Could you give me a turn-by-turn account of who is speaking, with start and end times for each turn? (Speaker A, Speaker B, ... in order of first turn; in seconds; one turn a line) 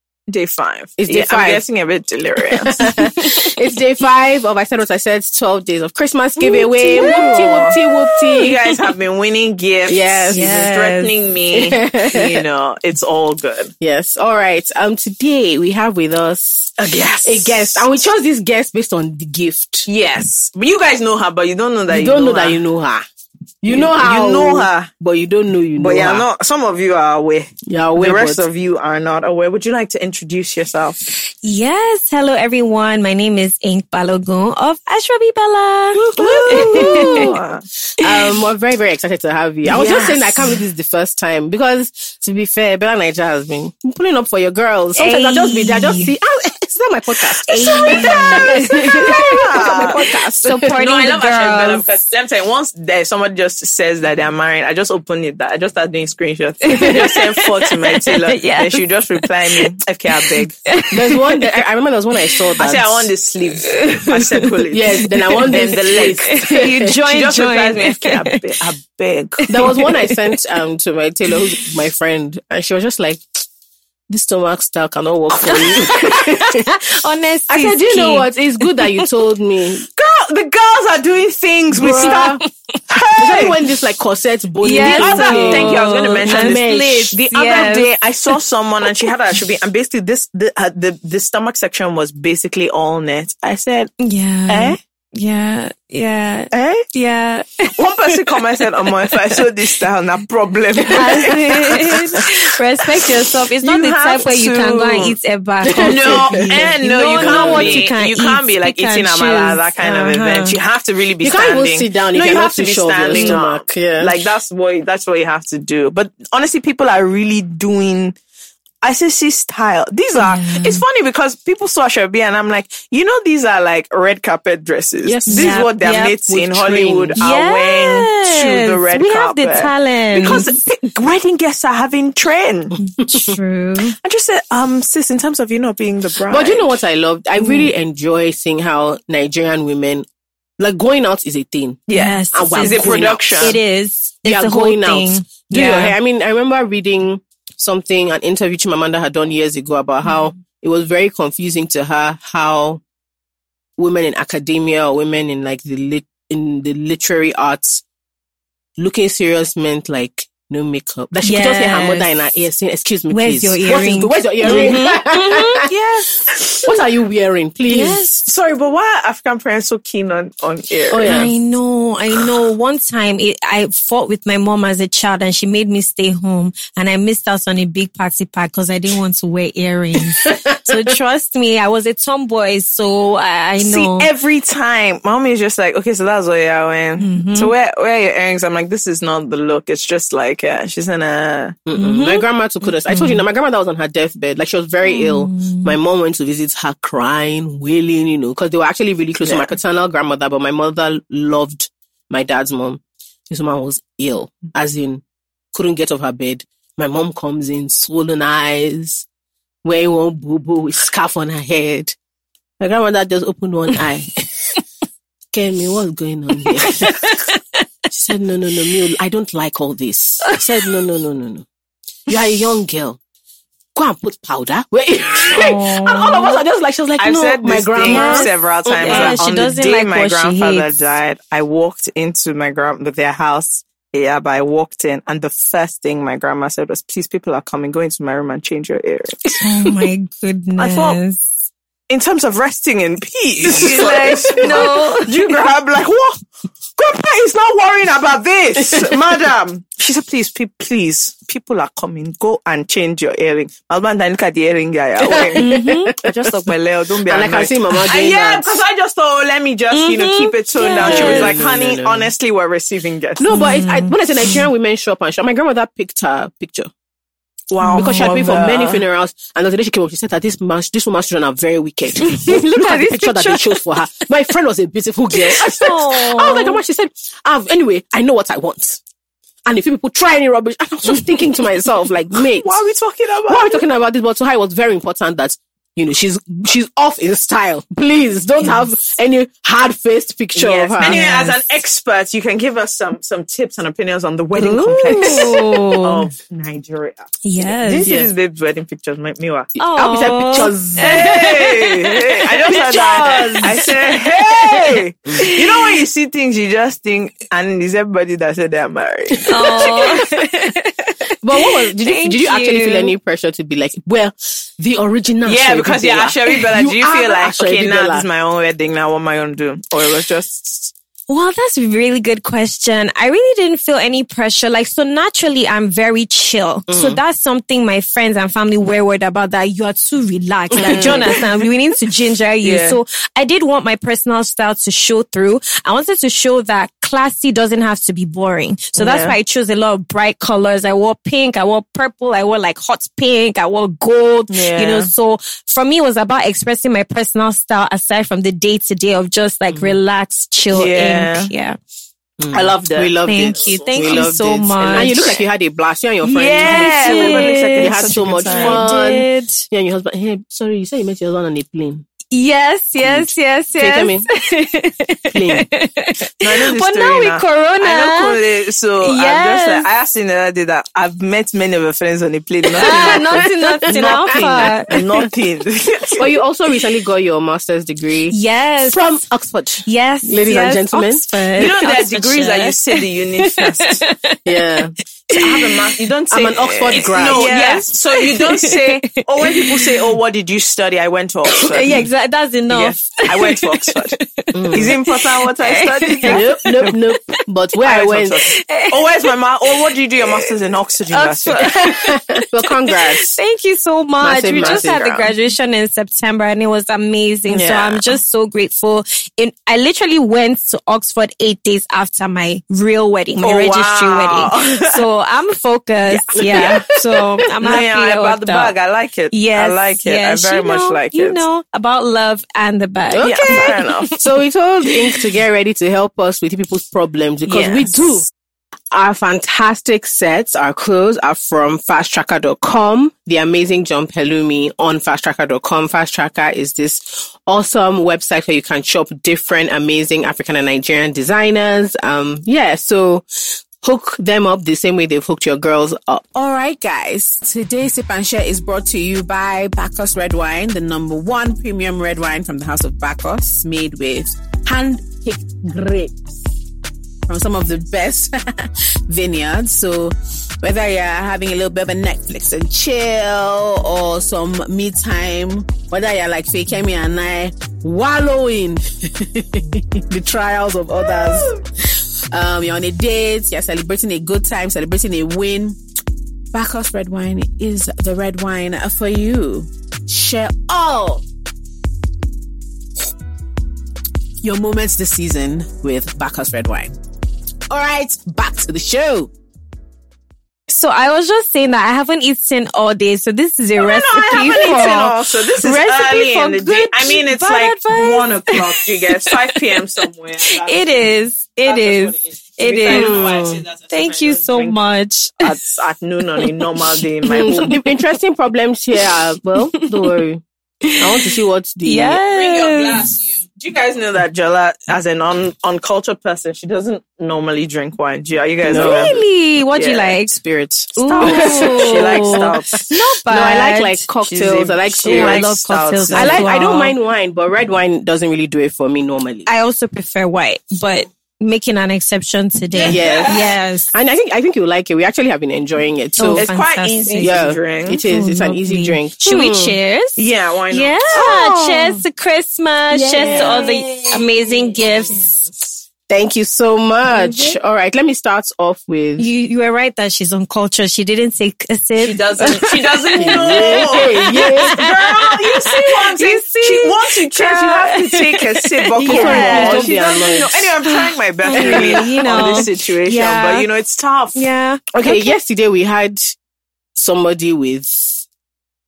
Speaker A: 0.3-2.8
Speaker B: 1.0-1.6
Speaker B: 2.5-8.6
Speaker C: 2.8-3.4
Speaker A: 6.4-7.8
Speaker C: 7.0-7.3
Speaker A: 8.4-13.7
Speaker B: 9.9-10.6
Speaker C: 10.3-11.1
Speaker B: 11.5-12.4
Speaker B: 13.8-19.9
Speaker A: 16.8-17.9
Speaker A: 19.9-22.6
Speaker B: 21.9-23.0
Speaker B: 23.6-26.2
Speaker A: 23.7-24.9
Speaker A: 25.8-31.0
Speaker B: 27.7-28.5
Speaker C: 31.4-37.2
Speaker A: 35.9-37.6
Speaker B: 36.1-37.4
Speaker B: 38.0-50.8
Speaker A: 39.7-40.2
Speaker C: 39.7-40.6
Speaker C: 45.0-46.1
Speaker C: 47.5-49.4
Speaker A: 47.6-60.5
Speaker C: 50.4-51.9
Speaker C: 56.6-61.4
Speaker B: 60.9-63.1
Speaker A: 62.6-66.5
Speaker C: 63.7-68.4
Speaker B: 64.7-67.0
Speaker A: 67.0-69.8
Speaker C: 69.5-70.1
Speaker B: 69.5-73.4
Speaker B: 74.1-76.7
Speaker C: 75.5-79.0
Speaker B: 77.5-79.8
Speaker A: 80.0-82.3
Speaker B: 81.7-82.4
Speaker C: 82.0-82.3
Speaker A: 82.9-83.6
Speaker B: 83.2-87.1
Speaker C: 84.6-87.9
Speaker A: 84.8-93.9
Speaker C: 94.0-99.7
Speaker A: 94.5-94.8
Speaker A: 96.5-96.8
Speaker A: 97.8-102.3
Speaker C: 100.9-110.6
Speaker B: 101.0-101.3
Speaker A: 103.6-105.2
Speaker B: 105.6-107.9
Speaker A: 105.7-118.2
Speaker B: 111.2-114.2
Speaker C: 113.1-113.3
Speaker A: 118.8-132.8
Speaker C: 120.2-120.8
Speaker B: 125.0-125.6
Speaker C: 125.3-126.2
Speaker B: 126.3-127.2
Speaker C: 127.2-130.5
Speaker C: 132.8-133.9
Speaker A: 134.0-136.7
Speaker B: 136.3-140.1
Speaker C: 137.4-137.7
Speaker B: 140.6-143.6
Speaker A: 141.9-143.6
Speaker C: 141.9-142.9
Speaker C: 143.4-145.9
Speaker B: 144.2-152.8
Speaker B: 153.8-157.8
Speaker B: 158.8-165.7
Speaker C: 161.2-162.1
Speaker C: 163.1-166.2
Speaker B: 166.6-168.0
Speaker C: 167.7-168.2
Speaker A: 168.2-171.3
Speaker B: 170.9-171.3
Speaker C: 171.1-184.1
Speaker B: 180.2-180.8
Speaker A: 183.6-191.6
Speaker C: 187.0-187.5
Speaker B: 191.7-209.1
Speaker C: 191.7-192.2
Speaker C: 192.9-193.2
Speaker C: 194.8-195.8
Speaker A: 199.2-199.5
Speaker B: 209.6-211.9
Speaker B: 212.6-214.5
Speaker B: 215.3-217.1
Speaker C: 216.4-217.4
Speaker B: 217.9-221.4
Speaker C: 220.2-220.7
Speaker B: 222.1-223.0
Speaker B: 223.7-229.2
Speaker C: 225.3-226.4
Speaker A: 227.0-239.3
Speaker C: 227.8-230.8
Speaker C: 239.4-241.3
Speaker A: 240.6-241.0
Speaker A: 241.9-246.2
Speaker B: 243.4-244.7
Speaker C: 243.4-245.2
Speaker A: 246.8-255.4
Speaker B: 255.1-256.4
Speaker C: 255.3-255.9
Speaker A: 256.0-263.4
Speaker B: 257.1-258.6
Speaker C: 259.7-261.4
Speaker B: 260.6-262.1
Speaker B: 263.2-266.7
Speaker C: 263.3-264.4
Speaker A: 267.5-268.8
Speaker C: 267.6-268.3
Speaker B: 267.7-278.8
Speaker C: 272.0-274.1
Speaker C: 275.1-276.6
Speaker B: 279.4-282.6
Speaker A: 282.1-283.6
Speaker B: 283.3-291.0
Speaker A: 290.3-299.5
Speaker C: 290.8-291.3
Speaker C: 294.4-296.1
Speaker B: 294.8-295.5
Speaker C: 297.2-297.9
Speaker B: 297.8-298.1
Speaker C: 299.6-301.6
Speaker B: 299.6-301.9
Speaker A: 300.8-310.1
Speaker C: 302.4-303.7
Speaker B: 302.5-303.5
Speaker C: 305.1-305.8
Speaker C: 309.3-312.9
Speaker B: 309.4-310.0
Speaker B: 311.2-318.1
Speaker A: 315.2-320.7
Speaker C: 321.1-351.6
Speaker B: 326.7-327.0
Speaker B: 330.5-331.1
Speaker A: 330.6-331.3
Speaker A: 332.4-332.8
Speaker A: 338.8-339.1
Speaker A: 344.3-344.9
Speaker B: 349.5-349.8
Speaker A: 350.5-351.3
Speaker B: 352.2-361.8
Speaker A: 352.3-354.1
Speaker C: 353.1-355.0
Speaker A: 354.6-355.2
Speaker A: 356.0-358.6
Speaker C: 356.4-359.4
Speaker C: 362.1-368.2
Speaker B: 362.8-364.1
Speaker B: 365.1-365.4
Speaker A: 366.2-376.1
Speaker C: 368.8-369.6
Speaker B: 372.6-375.1
Speaker C: 372.6-374.7
Speaker B: 376.0-378.1
Speaker C: 378.1-379.0
Speaker B: 378.7-381.0
Speaker C: 379.6-384.2
Speaker A: 381.4-383.8
Speaker B: 384.2-384.7
Speaker A: 385.1-391.9
Speaker C: 385.1-385.7
Speaker B: 386.1-387.3
Speaker C: 386.7-389.8
Speaker C: 391.4-397.0
Speaker A: 392.5-393.9
Speaker B: 394.3-394.7
Speaker A: 394.5-396.5
Speaker B: 396.1-398.2
Speaker A: 397.6-401.7
Speaker C: 398.3-399.1
Speaker C: 400.9-418.5
Speaker B: 401.4-403.2
Speaker B: 404.0-405.1
Speaker A: 404.4-404.7
Speaker A: 407.3-407.9
Speaker A: 413.1-414.8
Speaker A: 415.9-416.7
Speaker B: 416.2-416.8
Speaker A: 417.4-421.2
Speaker C: 419.1-424.0
Speaker B: 422.9-428.1
Speaker A: 423.0-423.9
Speaker A: 427.2-428.0
Speaker B: 428.7-446.1
Speaker D: 446.1-456.2
Speaker D: 457.1-475.6
Speaker D: 476.3-481.0
Speaker D: 484.2-486.7
Speaker D: 487.5-489.1
Speaker C: 490.5-494.9
Speaker A: 493.6-500.7
Speaker B: 494.2-494.7
Speaker B: 495.4-496.9
Speaker C: 496.9-499.4
Speaker C: 500.2-503.0
Speaker A: 501.4-504.6
Speaker B: 502.7-503.4
Speaker C: 503.7-505.3
Speaker A: 505.2-507.6
Speaker C: 506.2-506.4
Speaker C: 507.1-507.6
Speaker B: 507.1-510.2
Speaker C: 509.5-510.0
Speaker C: 510.7-511.0
Speaker B: 510.8-512.0
Speaker C: 511.6-512.9
Speaker A: 512.1-520.0
Speaker B: 518.4-519.0
Speaker C: 518.6-520.2
Speaker B: 520.1-525.3
Speaker C: 520.8-523.8
Speaker A: 521.0-522.6
Speaker A: 524.0-526.3
Speaker C: 524.8-526.7
Speaker B: 525.9-529.3
Speaker C: 529.2-533.7
Speaker A: 532.5-533.3
Speaker B: 532.7-536.3
Speaker C: 536.0-537.2
Speaker A: 536.1-537.8
Speaker B: 537.0-539.5
Speaker C: 537.8-545.0
Speaker A: 540.0-541.1
Speaker B: 540.9-541.8
Speaker B: 542.7-543.9
Speaker A: 543.0-543.9
Speaker A: 544.9-545.4
Speaker B: 545.9-549.1
Speaker C: 546.9-547.4
Speaker C: 549.0-560.0
Speaker A: 551.8-564.2
Speaker B: 553.0-554.6
Speaker B: 558.8-560.5
Speaker C: 560.6-563.5
Speaker B: 561.3-562.5
Speaker C: 564.1-565.1
Speaker B: 564.7-566.1
Speaker B: 566.8-568.0